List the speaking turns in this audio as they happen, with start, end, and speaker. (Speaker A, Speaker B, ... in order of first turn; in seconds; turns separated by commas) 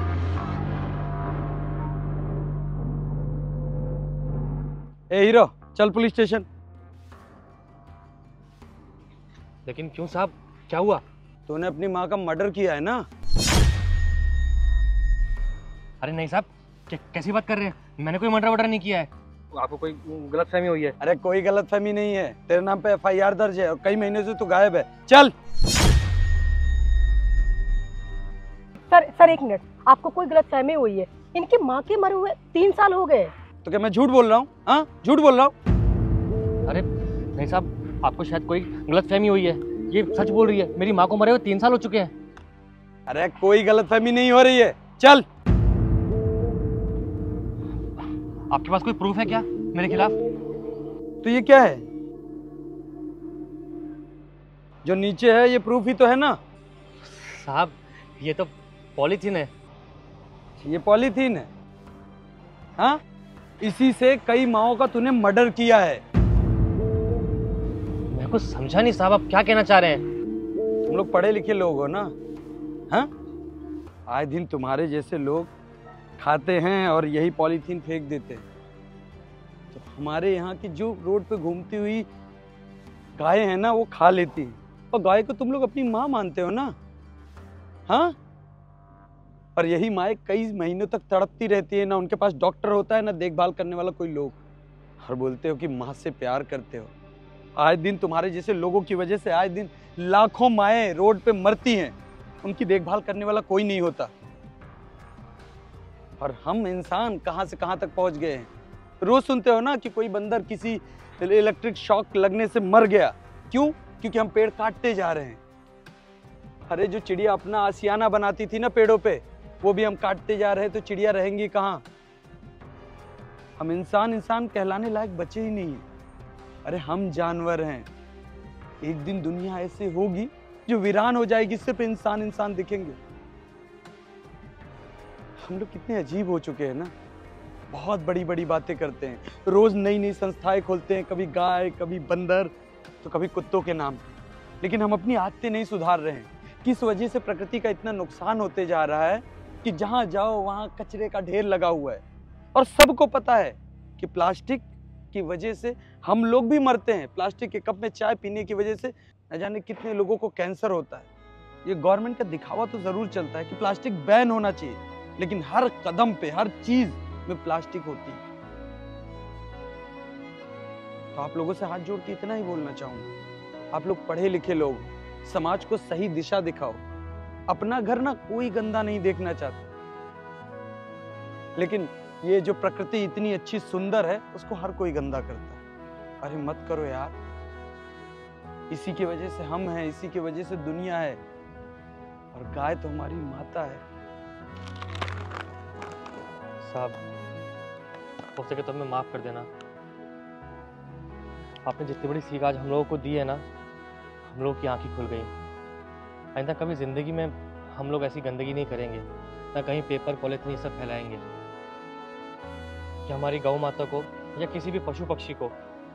Speaker A: 5.1-6.5, Speaker B: 9.7-11.0, Speaker A: 11.5-13.0, Speaker B: 16.0-20.9, Speaker A: 21.0-25.3, Speaker C: 28.9-33.3, Speaker A: 33.6-35.5, Speaker B: 36.6-42.1, Speaker A: 43.1-45.2, Speaker B: 48.5-50.1, Speaker A: 51.2-51.8, Speaker A: 54.8-56.4, Speaker B: 57.0-59.5, Speaker A: 60.6-61.5, Speaker A: 63.6-66.0, Speaker B: 68.1-70.0, Speaker A: 70.9-72.1, Speaker A: 74.1-75.5, Speaker A: 76.2-78.5, Speaker A: 79.7-82.1, Speaker A: 83.2-86.7, Speaker A: 87.9-88.1, Speaker A: 89.5-94.4, Speaker A: 95.0-96.9, Speaker A: 97.6-104.1, Speaker A: 106.2-108.5, Speaker A: 109.0-115.4, Speaker A: 116.7-121.8, Speaker A: 123.6-125.8, Speaker A: 126.6-127.9, Speaker A: 128.8-133.0, Speaker A: 135.4-136.9, Speaker A: 137.7-144.1, Speaker A: 144.6-152.0, Speaker A: 152.5-161.1, Speaker A: 161.6-168.2, Speaker A: 171.1-173.1, Speaker A: 173.7-176.8, Speaker A: 177.5-179.7, Speaker A: 181.6-185.6, Speaker A: 186.2-187.2, Speaker A: 188.7-191.2, Speaker A: 192.3-193.8, Speaker B: 196.6-197.0, Speaker B: 198.3-199.5, Speaker B: 201.6-203.4, Speaker B: 204.3-205.3, Speaker B: 206.3-211.2, Speaker B: 213.1-215.5